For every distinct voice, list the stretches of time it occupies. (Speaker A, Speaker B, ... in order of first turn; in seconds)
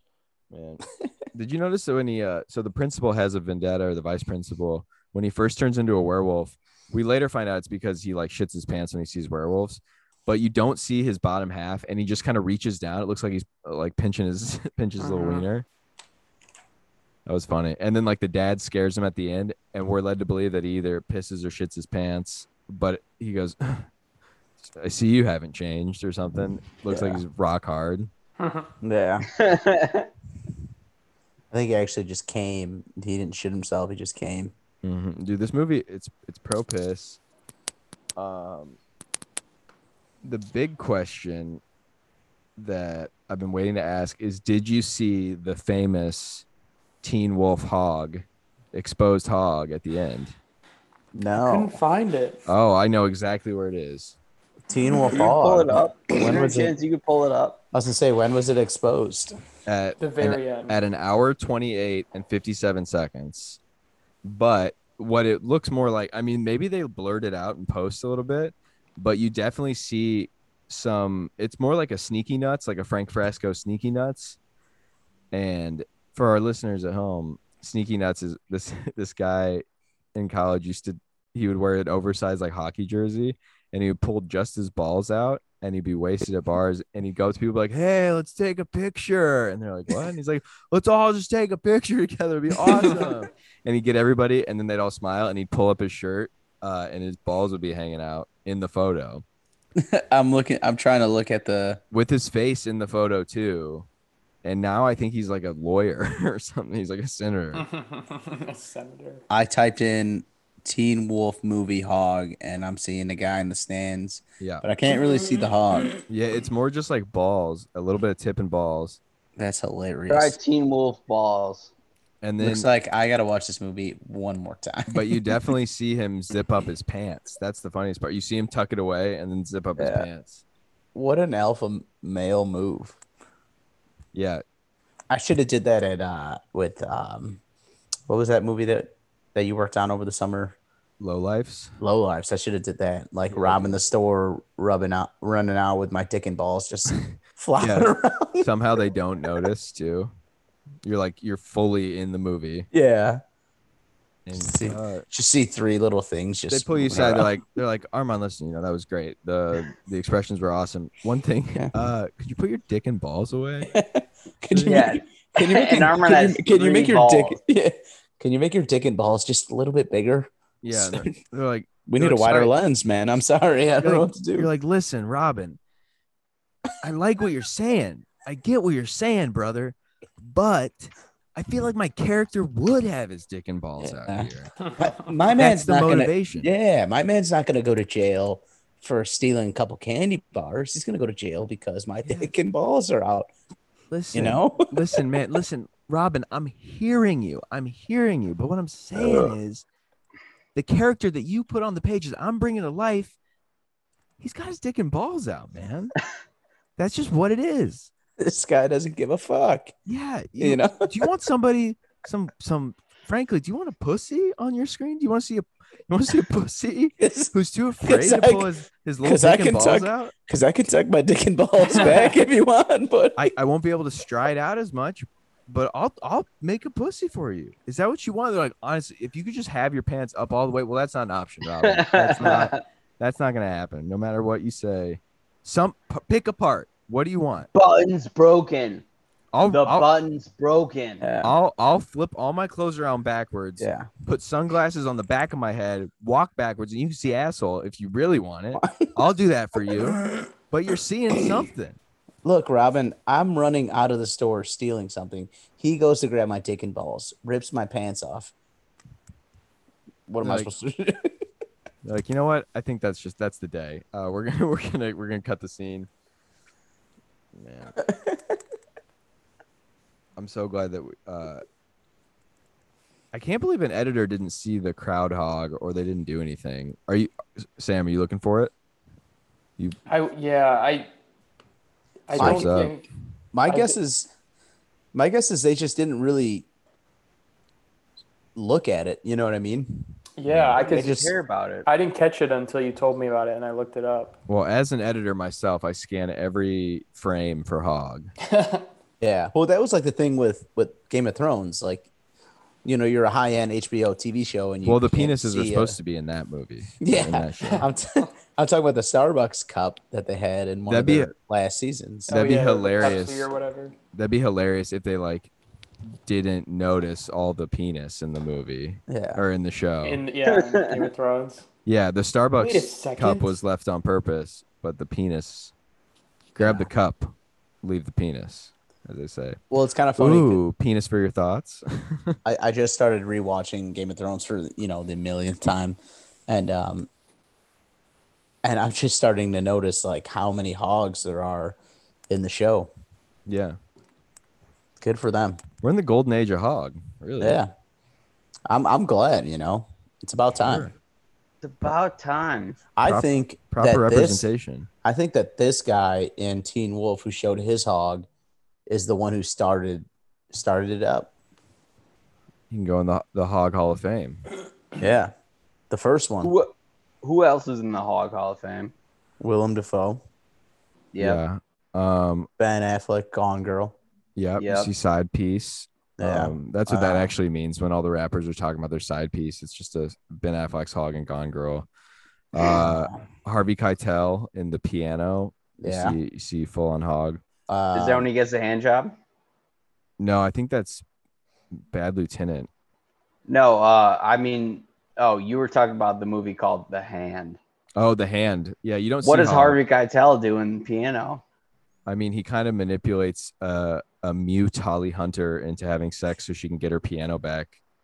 Speaker A: 0.5-15.7, 17.2-23.9, 24.6-28.1, 34.8-37.2, 38.1-38.8, 40.2-41.6, 42.6-46.5, 47.0-50.3, 52.5-54.1, 59.6-63.6, 64.2-74.4, 75.3-79.6, 80.1-99.2, 101.9-103.9, 104.4-107.7, 114.4-114.6, 116.1-119.0, 122.2-122.7, 124.9-130.4, 134.1-134.4, 141.0-141.7, 143.3-143.8, 147.6-150.1, 150.8-152.7, 154.2-155.0, 156.5-163.7, 164.5-164.9, 170.6-172.5, 173.8-175.6, 176.8-184.7, 185.3-186.5, 192.0-192.3, 193.9-199.6, 200.5-203.1, 204.2-205.9, 206.8-207.9, 209.8-220.1, 223.2-237.5, 239.3-239.9, 241.2-251.8, 260.2-260.5, 261.8-265.9, 267.3-267.8, 270.2-271.4, 273.1-278.5, 282.1-282.8, 290.3-290.6, 294.3-298.1, 304.6-307.6, 310.7-311.1, 312.1-313.3, 313.9-315.3, 315.9-320.0, 321.6-325.5, 326.3-329.4, 330.0-332.2, 343.3-343.6, 345.6-347.4, 350.4-350.7, 352.8-354.7, 362.5-364.2, 371.0-372.3, 374.1-381.7, 382.3-387.2, 390.0-390.8, 391.5-392.5, 397.8-399.6, 401.9-407.6
Speaker B: 15.0-15.5, 28.4-28.7, 51.4-52.5, 60.0-60.8, 107.5-109.2, 279.9-280.9, 282.1-282.9, 283.5-283.8, 290.2-290.9, 291.6-294.1, 298.3-298.6, 307.4-307.6, 312.1-313.7, 319.8-321.4, 322.4-323.3
Speaker C: 26.9-27.2, 28.8-29.3, 31.5-34.5, 51.1-51.8, 54.7-56.7, 57.7-59.4, 92.7-93.0, 99.8-101.8, 109.3-115.9, 119.4-120.4, 122.4-125.3, 129.8-130.1, 130.9-133.0, 135.1-137.4, 138.1-140.5, 141.8-148.5, 152.7-153.2, 154.3-157.3, 163.7-171.1, 171.8-174.5, 183.8-193.3, 194.1-194.7, 208.2-209.7, 210.4-210.9, 217.0-218.5, 219.0-223.3, 241.0-241.3, 243.6-243.9, 248.5-248.9, 252.2-258.3, 260.1-261.3, 267.9-268.2, 282.2-282.5, 283.3-284.1, 284.9-286.5, 288.3-289.8, 290.6-291.1, 299.0-301.9, 302.6-305.8, 306.8-312.2, 318.9-319.2, 326.4-326.7, 329.5-330.4, 332.2-336.9, 338.4-341.6, 342.1-342.7, 344.8-345.4, 347.2-347.5, 348.5-350.7, 352.8-354.3, 354.8-358.1, 358.7-361.1, 364.8-365.1, 365.7-366.3, 369.2-370.0, 372.4-373.8, 376.0-377.1, 382.3-383.0, 385.6-386.0, 387.5-388.1
Speaker D: 29.4-30.1, 55.2-57.6, 120.1-121.7, 164.6-167.4, 231.6-232.6, 237.5-238.8, 239.4-241.0, 290.6-291.7, 320.3-320.9, 351.4-352.6, 366.2-368.7, 370.9-371.2, 374.4-374.7, 387.7-388.9, 393.3-397.4, 399.0-401.2